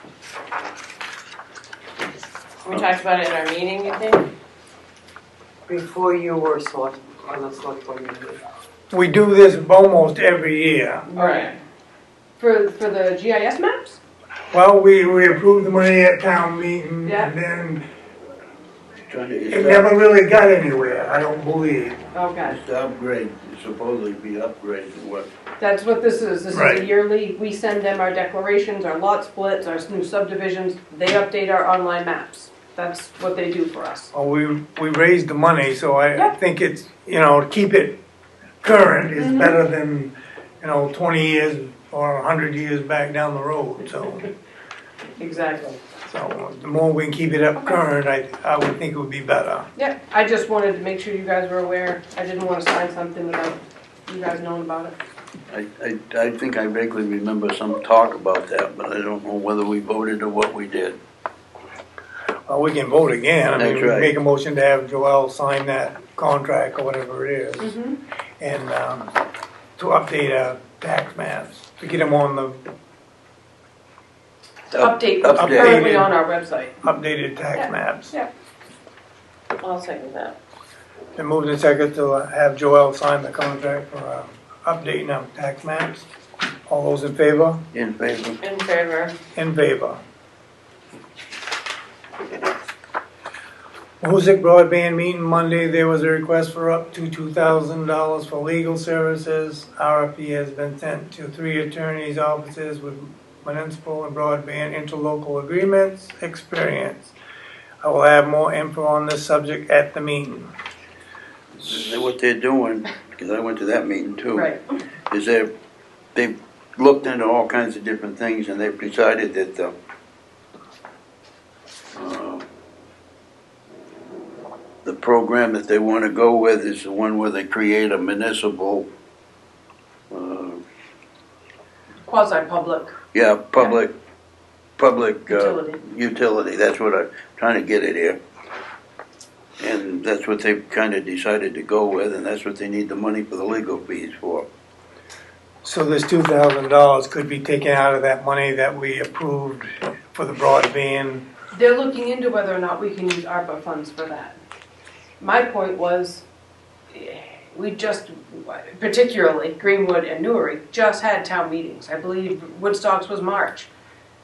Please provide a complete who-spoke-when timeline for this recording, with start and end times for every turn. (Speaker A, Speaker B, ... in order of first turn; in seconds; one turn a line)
Speaker A: 2.6-4.3
Speaker B: 5.7-8.4
Speaker C: 8.9-11.1
Speaker D: 11.1-11.6
Speaker A: 11.1-11.5
Speaker D: 12.4-14.0
Speaker C: 14.5-17.8
Speaker D: 17.0-17.3
Speaker E: 19.1-19.9
Speaker C: 19.5-22.0
Speaker D: 22.1-22.6
Speaker E: 22.4-25.3
Speaker D: 25.6-34.1
Speaker C: 26.5-26.9
Speaker C: 34.1-38.0
Speaker C: 38.6-44.3
Speaker D: 39.2-39.6
Speaker D: 45.2-45.8
Speaker C: 46.0-49.7
Speaker D: 49.8-55.0
Speaker E: 55.5-61.0
Speaker C: 62.5-67.7
Speaker E: 63.6-64.1
Speaker D: 67.6-68.0
Speaker C: 68.4-69.1
Speaker C: 69.8-72.6
Speaker D: 74.7-76.8
Speaker E: 74.7-75.8
Speaker C: 75.3-76.1
Speaker C: 76.8-78.1
Speaker D: 77.5-78.3
Speaker A: 79.6-80.4
Speaker C: 81.2-86.1
Speaker C: 86.7-87.6
Speaker E: 87.7-88.4
Speaker A: 88.4-89.2
Speaker C: 89.3-90.0
Speaker C: 94.0-107.1
Speaker C: 107.8-110.5
Speaker E: 111.6-114.5
Speaker E: 115.1-115.5
Speaker E: 116.1-119.8
Speaker E: 121.9-122.4
Speaker E: 124.8-128.9
Speaker E: 130.1-130.6
Speaker D: 132.1-132.9
Speaker E: 133.1-133.9
Speaker E: 134.8-138.2
Speaker D: 135.3-135.8
Speaker E: 139.6-144.5
Speaker C: 145.6-151.2
Speaker D: 151.5-154.3
Speaker D: 155.2-156.2
Speaker D: 156.9-163.7